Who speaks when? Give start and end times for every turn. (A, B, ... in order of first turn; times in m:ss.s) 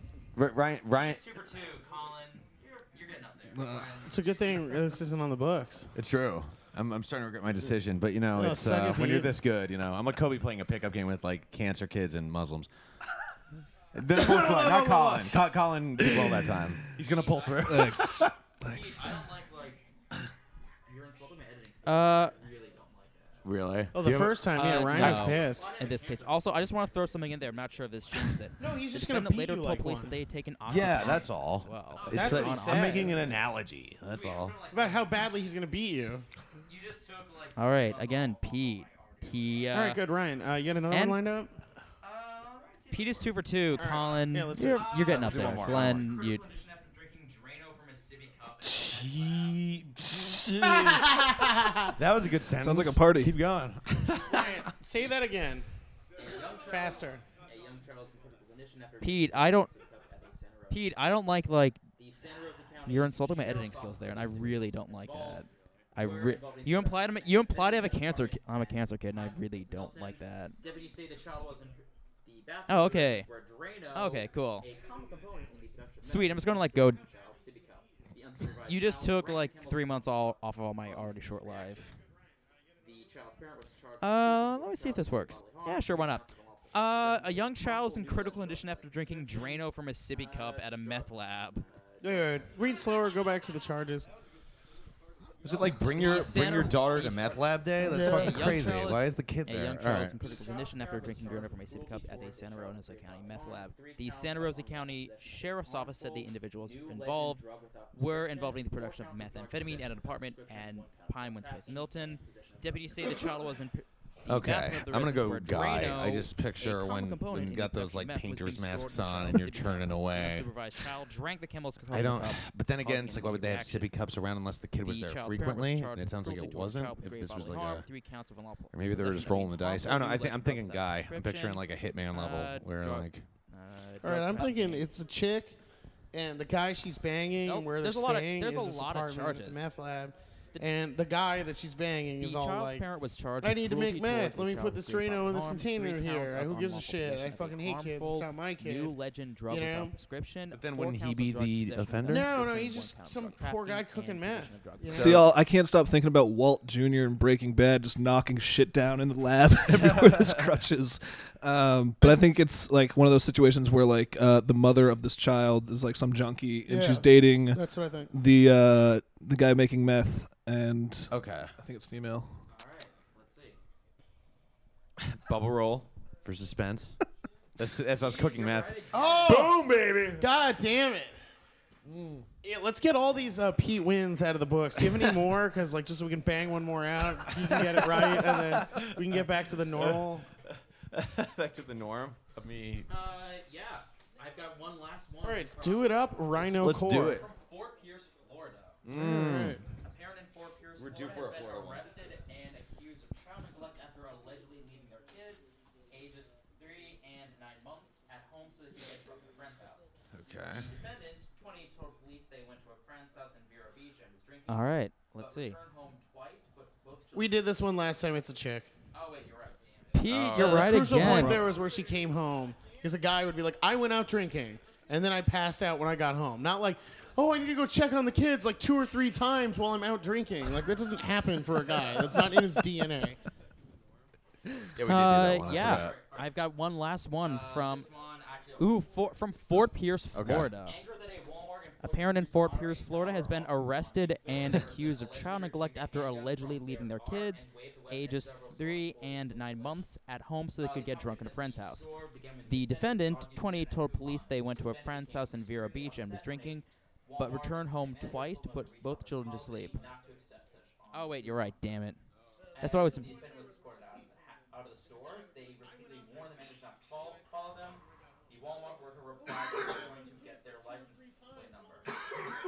0:00.3-0:01.2 A
0:01.0-0:04.1 B
0:01.4-0:02.4 C
0:02.9-0:03.3 C
0:03.6-0:03.9 D
0:04.0-0:05.9 E
0:05.9-0:12.7 A
0:08.3-0:09.3 E
0:13.9-0:18.3 A
0:14.1-0:15.3 E
0:17.0-0:19.8 B
0:17.6-0:19.1 D
0:20.9-0:23.5 B
0:21.8-0:22.5 C
0:23.4-0:25.4 A
0:23.9-0:25.7 E
0:24.5-0:33.4 C
0:24.7-0:27.4 B
0:28.1-0:28.4 B
0:28.6-0:30.1 E
0:30.6-0:34.5 A
0:30.7-0:31.3 B
0:31.8-0:35.2 B
0:32.0-0:33.3 E
0:34.7-0:36.2 E
0:36.7-0:39.9 B
0:37.5-0:40.0 C
0:39.7-0:41.5 E
0:40.9-0:41.2 C
0:42.0-0:44.0 B
0:42.9-0:46.5 C
0:43.8-0:45.8 E
0:44.6-0:49.6 B
0:45.0-0:46.1 A
0:47.8-0:48.2 C
0:48.6-0:51.2 A
0:50.6-0:51.9 E
0:51.9-0:54.3 A
0:52.6-0:53.3 D
0:54.2-0:55.7 E
0:56.2-1:00.9 B
0:56.5-0:57.2 E
0:59.0-0:59.7 C
1:00.7-1:01.9 C
1:01.9-1:05.4 B
1:02.8-1:10.6 C
1:06.0-1:21.8 B
1:12.7-1:13.3 C
1:13.9-1:14.7 C
1:16.0-1:17.0 C
1:18.6-1:22.0 C
1:22.8-1:32.5 B
1:24.0-1:31.6 C
1:32.0-1:34.1 E
1:35.4-1:40.2 A
1:35.4-1:38.9 B
1:35.8-1:37.4 C
1:37.8-1:38.5 E
1:37.9-2:03.9 C
1:39.9-1:53.5 B
1:54.3-2:00.5 A
2:01.9-2:07.9 A
2:04.8-2:14.9 C
2:08.7-2:13.2 A
2:14.0-2:15.6 E
2:16.1-2:22.8 E
2:17.4-2:19.6 C
2:22.2-2:35.2 C
2:23.4-2:28.9 E
2:29.5-2:29.9 E
2:30.5-2:32.2 A
2:32.1-2:35.2 E
2:34.9-2:35.3 A
2:34.9-2:52.4 D
2:39.8-2:40.4 A
2:46.7-2:48.1 E
2:51.1-2:51.5 A
2:52.5-2:53.6 B
2:55.0-2:57.0 A
2:57.6-3:00.3 A
2:57.9-2:59.6 B
2:58.9-2:59.6 E
2:59.0-2:59.3 C
3:00.2-3:01.1 E
3:01.8-3:02.2 A
3:02.4-3:10.2 E
3:07.2-3:09.2 A
3:09.8-3:12.9 A
3:12.9-3:13.6 C
3:12.9-3:18.8 B
3:14.4-3:15.2 C
3:15.2-3:17.2 E
3:16.5-3:17.3 A
3:17.2-3:17.9 C
3:18.8-3:19.6 A
3:18.9-3:19.6 E
3:19.8-3:37.4 B
3:19.8-3:20.3 C
3:20.8-3:22.0 A
3:30.1-3:30.7 A
3:34.5-3:35.6 C
3:37.1-3:38.7 E
3:38.9-3:40.1 B
3:39.9-3:41.5 C
3:40.0-3:41.1 A
3:40.3-3:53.2 E
3:54.7-3:56.0 A
3:54.8-3:57.9 C
3:55.3-3:56.3 B
3:57.2-3:58.9 B
3:58.6-4:00.8 C
4:00.1-4:00.5 A
4:00.3-4:09.8 B
4:01.8-4:16.6 C
4:10.6-4:21.6 B
4:17.2-4:19.8 C
4:20.9-4:22.0 C
4:22.6-4:31.9 B
4:22.6-4:23.2 C
4:26.1-4:26.5 C
4:29.2-4:30.8 C